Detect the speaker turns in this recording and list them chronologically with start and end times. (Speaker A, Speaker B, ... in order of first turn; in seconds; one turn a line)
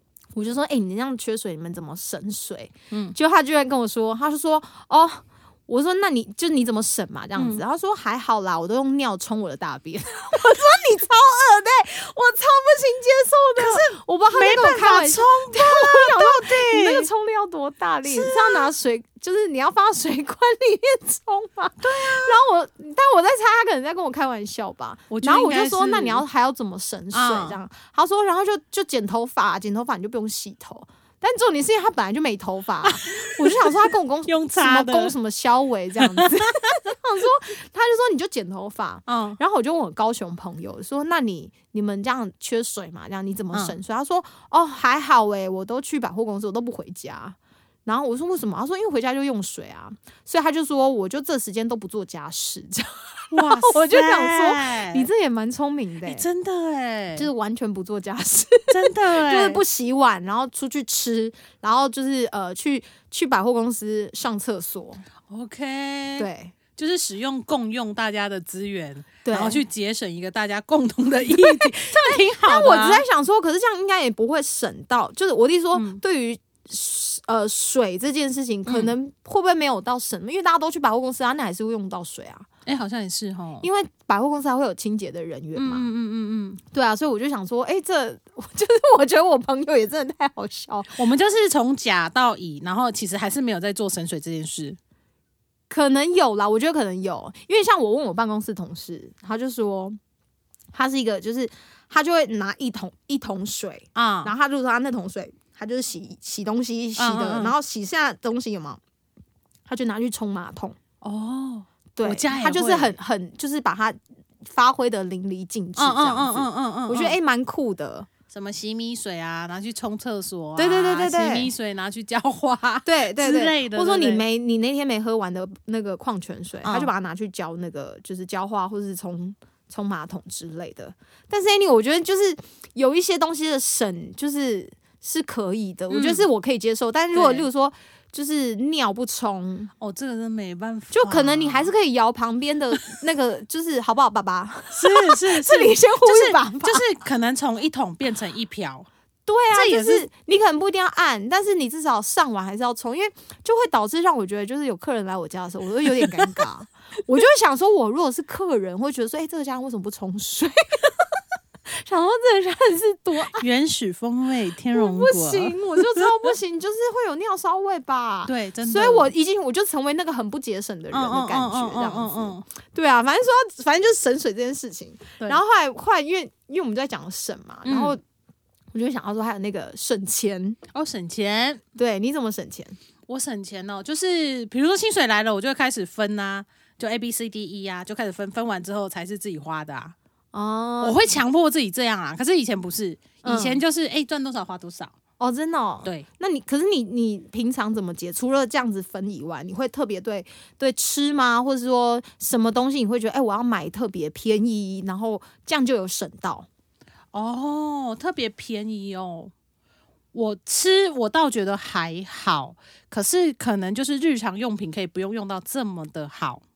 Speaker A: 0.3-56.2
Speaker B: 2.9-3.1
Speaker B: 7.3-7.6
Speaker B: 13.6-17.1
Speaker B: 18.0-18.7
Speaker B: 21.8-22.4
Speaker B: 25.1-26.2
Speaker B: 27.1-27.6
Speaker B: 32.8-35.1
Speaker B: 36.0-36.4
Speaker B: 39.1-39.4
Speaker B: 53.3-55.1
Speaker B: 56.0-57.3
Speaker A: 57.1-65.0
Speaker B: 58.7-59.6
Speaker B: 65.3-73.0
Speaker A: 66.2-66.5
Speaker A: 69.2-69.6
Speaker A: 71.3-82.5
Speaker B: 75.7-76.0
Speaker B: 78.7-78.9
Speaker B: 82.7-83.7
Speaker A: 83.6-85.9
Speaker B: 85.5-86.6
Speaker A: 86.7-91.0
Speaker B: 91.0-94.8
Speaker A: 95.7-100.0
Speaker A: 100.7-108.8
Speaker B: 103.9-104.3
Speaker B: 107.0-107.5
Speaker A: 109.7-110.8
Speaker B: 111.0-113.0
Speaker A: 112.0-118.1
Speaker B: 115.8-117.2
Speaker B: 118.3-124.2
Speaker A: 120.6-121.5
Speaker A: 122.8-139.7
Speaker B: 126.6-126.9
Speaker B: 135.9-136.2
Speaker B: 137.1-137.5
Speaker B: 139.8-141.7
Speaker A: 140.9-146.8
Speaker B: 144.8-148.9
Speaker A: 149.2-161.1
Speaker B: 149.5-150.1
Speaker B: 156.0-156.5
Speaker A: 161.7-163.4
Speaker B: 163.3-166.1
Speaker A: 164.7-178.0
Speaker B: 168.2-169.1
Speaker B: 170.9-172.4
Speaker B: 177.6-178.0
Speaker A: 178.7-180.6
Speaker B: 180.7-181.6
Speaker A: 181.8-182.8
Speaker B: 183.1-189.9
Speaker A: 190.3-191.2
Speaker B: 190.8-194.9
Speaker A: 193.2-193.6
Speaker A: 195.2-206.5
Speaker B: 207.1-209.3
Speaker B: 210.1-216.4